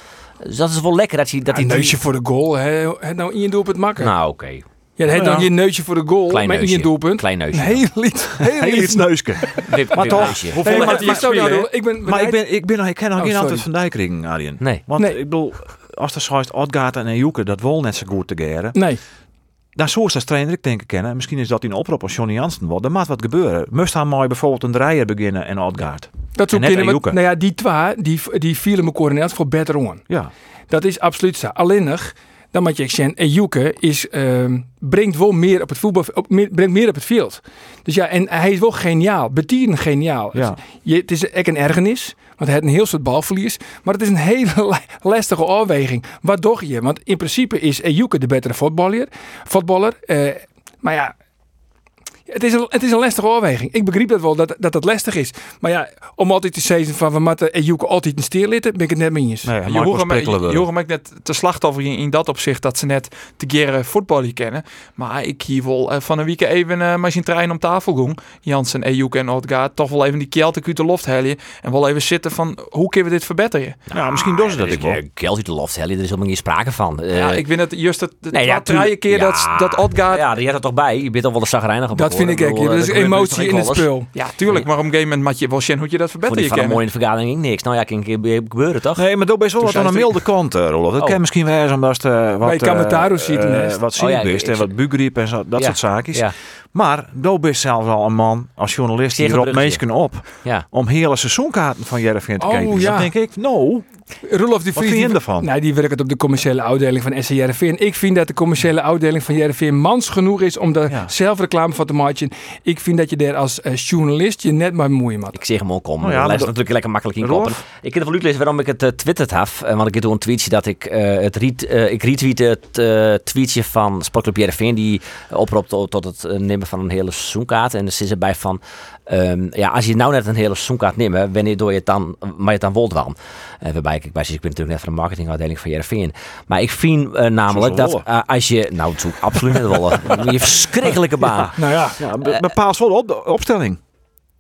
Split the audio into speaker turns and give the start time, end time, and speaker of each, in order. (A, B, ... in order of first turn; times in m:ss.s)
0:00.4-0:02.0 A
0:01.5-0:04.1 B
0:04.0-0:04.6 A
0:05.0-0:12.4 B
0:05.1-0:05.5 C
0:06.3-0:07.8 A
0:08.4-0:18.8 C
0:09.6-0:10.6 A
0:10.0-0:11.7 D
0:13.2-0:13.7 B
0:18.7-0:19.0 B
0:19.8-0:27.2 C
0:26.4-0:30.0 B
0:30.7-0:51.1 B
0:40.3-0:40.6 C
0:52.3-0:59.5 B
0:59.4-1:00.7 C
0:59.7-1:13.8 D
1:13.9-1:17.4 A
1:13.9-1:15.0 C
1:17.1-1:20.3 D
1:18.3-1:23.9 A
1:21.9-1:24.1 B
1:24.1-1:26.8 D
1:24.4-1:24.7 A
1:26.2-1:29.1 A
1:29.0-1:43.8 C
1:29.6-1:30.1 A
1:32.4-1:33.8 B
1:34.0-1:34.7 A
1:35.6-1:36.3 A
1:39.1-1:39.8 A
1:42.4-1:43.1 B
1:44.3-1:55.4 B
1:44.7-1:45.5 C
1:55.3-2:21.6 A
1:56.0-1:56.6 C
1:57.2-1:57.6 C
2:17.5-2:18.1 C
2:21.2-2:23.8 C
2:21.6-2:22.0 B